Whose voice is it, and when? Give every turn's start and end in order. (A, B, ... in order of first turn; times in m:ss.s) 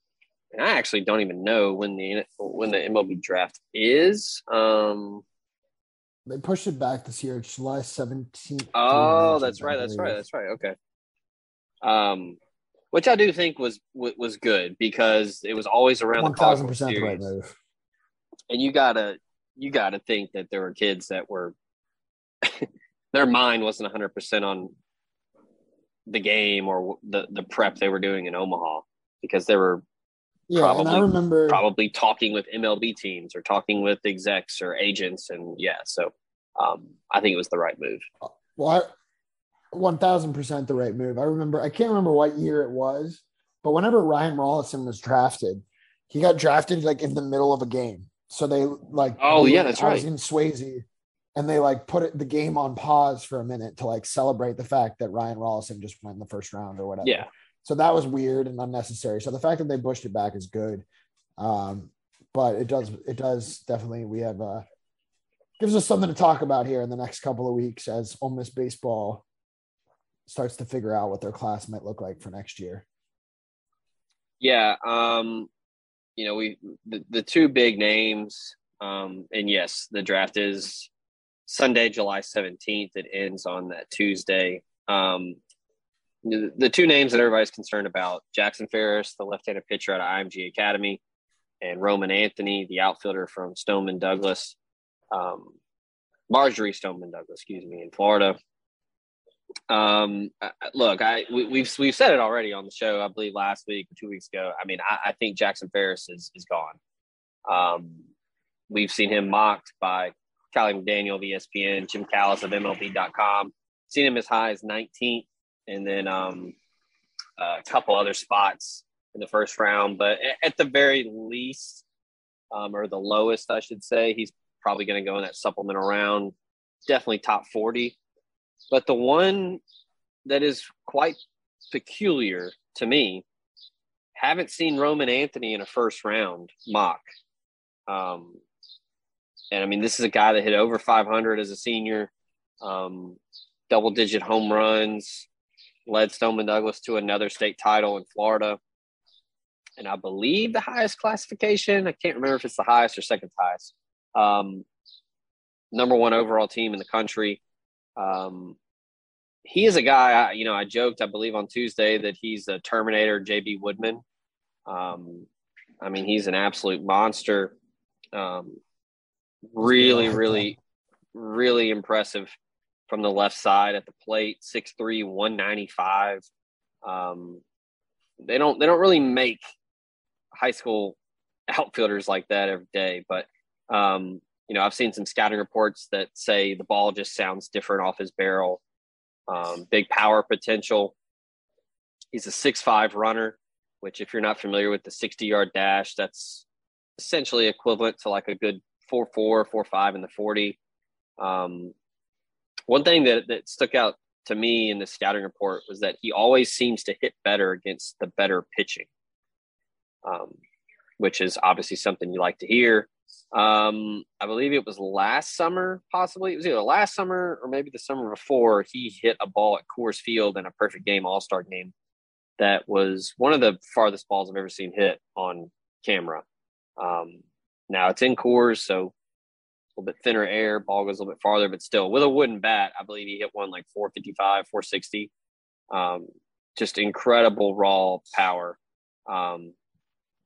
0:00.5-0:05.2 A
0:06.3-0:10.2 B
0:08.7-0:10.8 A
0:11.8-0:12.4 A
0:12.9-0:17.2 A
0:16.2-0:17.6 B
0:18.5-0:21.5 A
0:22.4-0:24.7 A
0:26.1-0:29.8 A
0:30.5-0:31.6 B
0:30.6-0:38.1 A
0:38.6-0:38.9 B
0:39.7-0:50.8 B
0:49.2-0:50.1 A
0:51.4-1:00.8 B
0:57.0-0:57.3 A
1:01.4-1:04.6 B
1:05.6-1:09.2 B
1:10.3-1:12.8 B
1:14.4-1:15.5 A
1:16.2-1:20.9 A
1:21.5-1:25.4 A
1:26.2-1:31.0 A
1:31.6-1:34.6 A
1:35.1-1:35.6 A
1:36.3-1:38.4 A
1:39.7-1:46.8 A
1:47.5-1:48.1 A
1:48.7-1:56.6 A
1:57.4-2:01.8 A
2:02.5-2:06.3 A
2:06.9-2:08.0 A
2:08.7-2:09.6 A
2:10.2-2:11.2 A
2:11.7-2:13.2 A
2:14.2-2:17.1 A
2:17.9-2:18.4 A
2:19.5-2:25.3 A
2:25.9-2:28.6 A
2:29.8-2:34.6 A
2:35.7-2:37.4 A
2:38.0-2:38.6 A
2:39.4-2:44.0 A
2:44.7-2:45.3 A
2:45.8-2:47.6 A
2:48.2-2:48.6 A
2:49.5-2:50.6 A
2:49.6-2:50.5 B
2:51.1-2:52.3 A
2:52.9-2:56.2 A
2:56.8-2:57.4 A
2:58.2-2:59.4 A
3:00.3-3:01.0 A
3:01.5-3:08.6 A
3:09.3-3:10.9 A
3:12.1-3:16.4 A
3:17.0-3:20.6 A
3:21.2-3:21.7 A
3:22.7-3:28.9 A
3:30.0-3:30.4 A
3:31.0-3:41.7 A
3:42.4-3:46.2 A
3:46.8-3:48.9 A
3:49.8-3:55.1 A
3:55.7-3:59.5 A